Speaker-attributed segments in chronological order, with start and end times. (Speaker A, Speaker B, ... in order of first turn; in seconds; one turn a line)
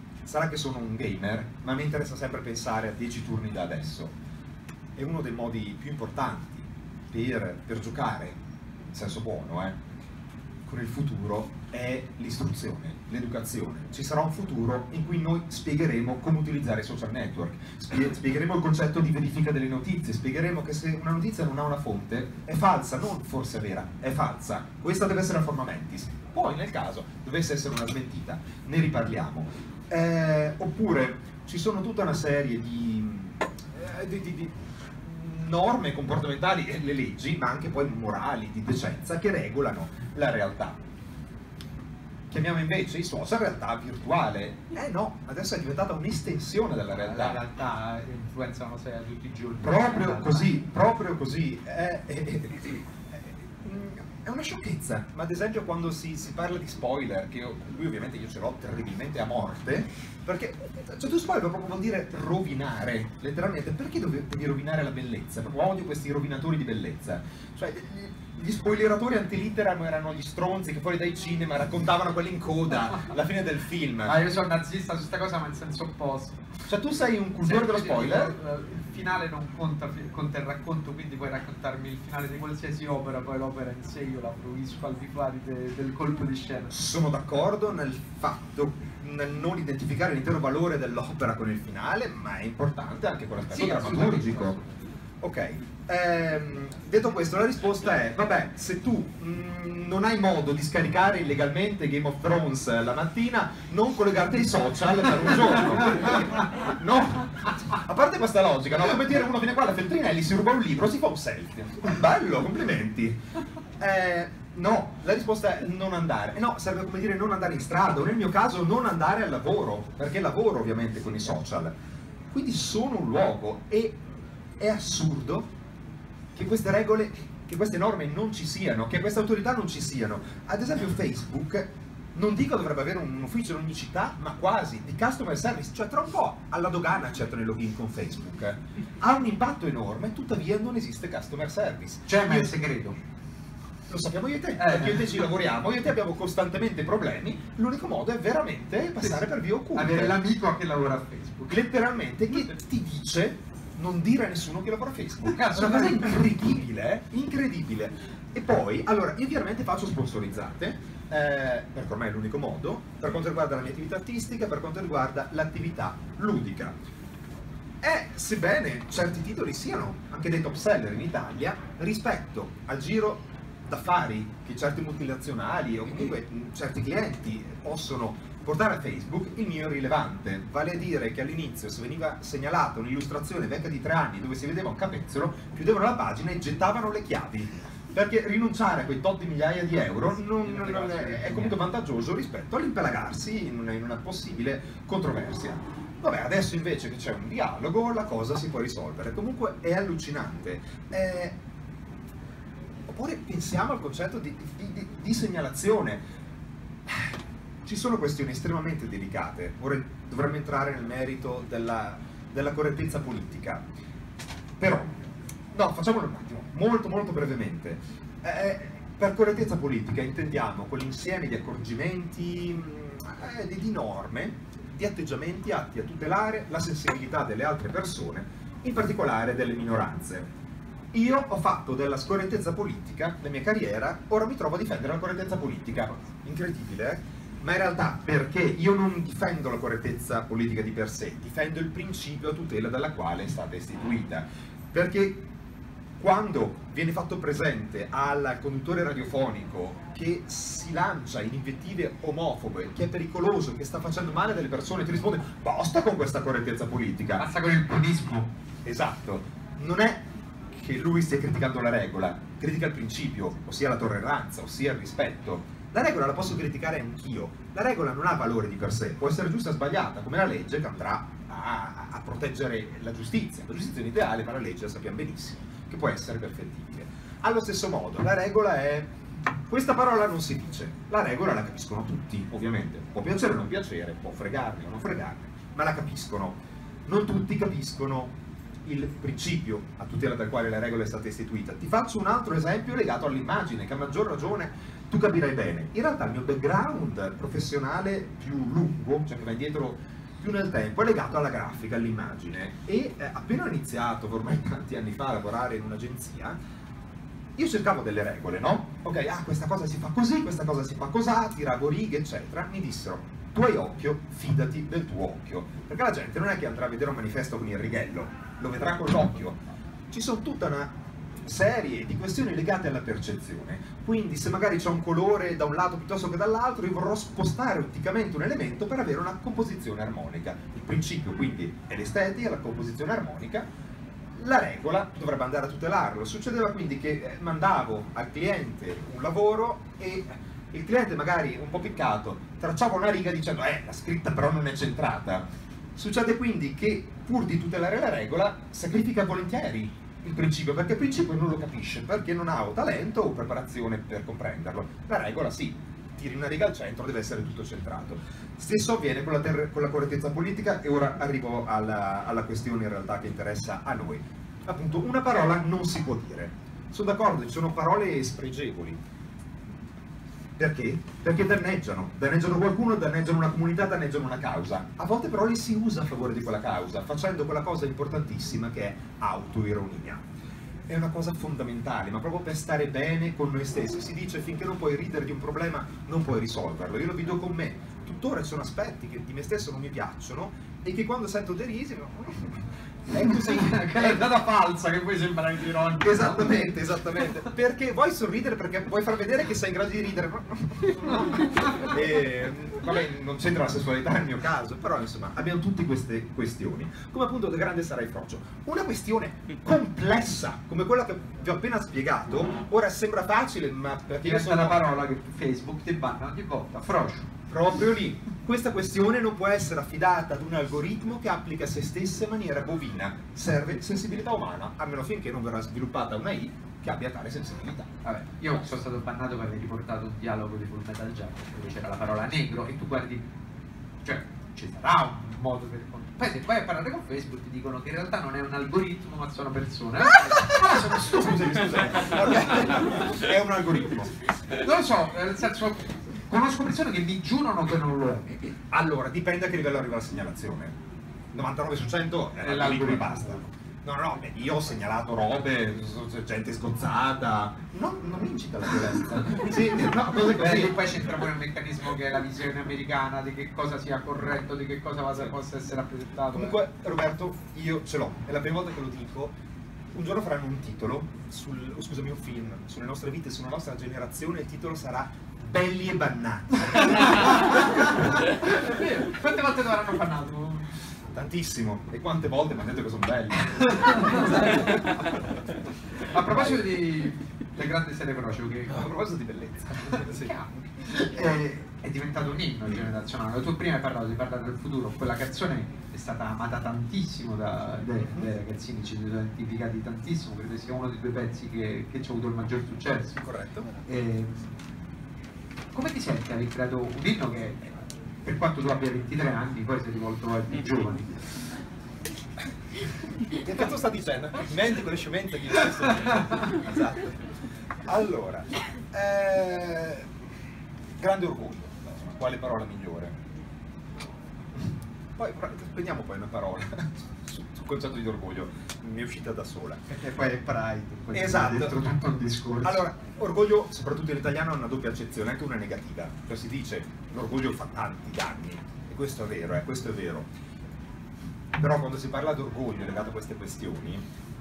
Speaker A: 0.2-4.2
Speaker A: 5.0-8.4
Speaker A: 8.9-9.8
Speaker A: 10.7-40.8
Speaker A: 42.3-47.4
Speaker B: 46.9-50.5
Speaker A: 49.6-74.1
Speaker B: 74.0-76.5
Speaker A: 76.7-78.3
Speaker B: 77.4-86.7
Speaker A: 86.7-94.6
Speaker B: 93.5-94.8
Speaker A: 95.2-113.2
Speaker A: 113.8-121.7
Speaker A: 122.3-124.0
Speaker A: 124.6-125.5
Speaker A: 126.3-142.5
Speaker B: 142.1-143.0
Speaker A: 143.9-150.2
Speaker B: 144.6-145.0
Speaker B: 149.7-151.6
Speaker A: 151.5-166.8
Speaker B: 155.2-156.2
Speaker A: 167.8-201.4
Speaker B: 190.1-191.6
Speaker A: 202.9-206.0
Speaker A: 206.8-213.6
Speaker A: 214.6-230.3
Speaker A: 230.9-245.3
Speaker A: 246.0-257.2
Speaker B: 257.2-258.3
Speaker A: 258.6-278.9
Speaker A: 279.4-306.4
Speaker A: 307.4-333.5
Speaker A: 334.2-368.8
Speaker A: 370.4-380.1
Speaker A: 380.7-394.0
Speaker B: 392.9-396.6
Speaker A: 395.8-414.6
Speaker B: 414.0-417.1
Speaker A: 417.3-427.7
Speaker B: 427.8-433.1
Speaker B: 433.8-441.1
Speaker A: 440.2-443.9
Speaker B: 444.4-448.3
Speaker A: 448.5-450.6
Speaker A: 451.1-460.6
Speaker B: 452.2-453.2
Speaker B: 459.8-466.4
Speaker A: 466.1-469.1
Speaker A: 469.7-477.2
Speaker B: 476.9-480.5
Speaker A: 480.9-484.5
Speaker B: 483.3-484.6
Speaker B: 485.9-488.6
Speaker A: 488.5-490.1
Speaker B: 489.6-503.0
Speaker A: 503.0-503.4
Speaker B: 503.6-504.5
Speaker B: 505.5-511.0
Speaker A: 513.2-517.0
Speaker A: 517.6-519.9
Speaker A: 520.8-523.0
Speaker A: 524.3-529.6
Speaker B: 529.7-532.6
Speaker A: 530.9-531.5
Speaker A: 532.4-540.1
Speaker A: 541.3-543.9